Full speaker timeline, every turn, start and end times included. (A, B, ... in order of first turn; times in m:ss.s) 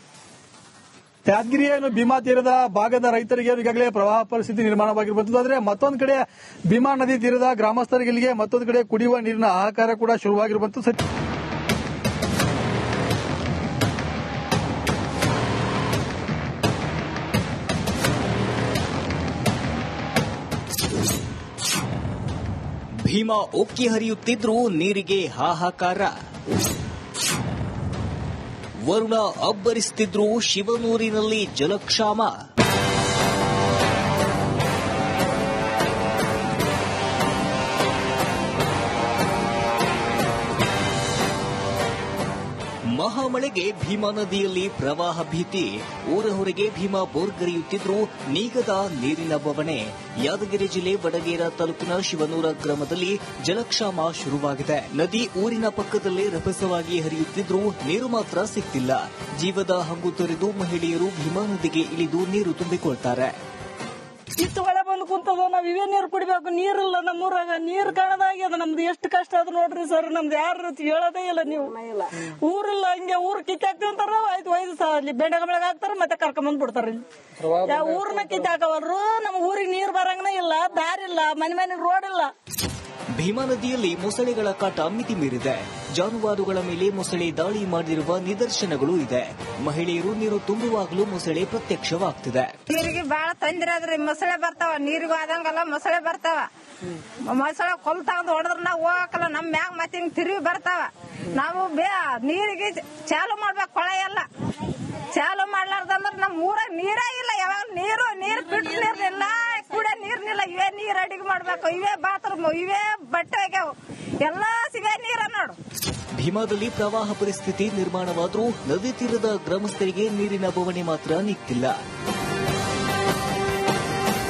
0:01.3-0:11.0 A
0:23.0-0:26.2 B
0:28.9-0:32.4 B
0:42.9-1:03.4 B
1:04.4-1:22.3 C
1:23.2-1:32.5 B
1:32.7-1:36.5 D
1:37.2-1:55.6 D
1:56.2-2:01.8 B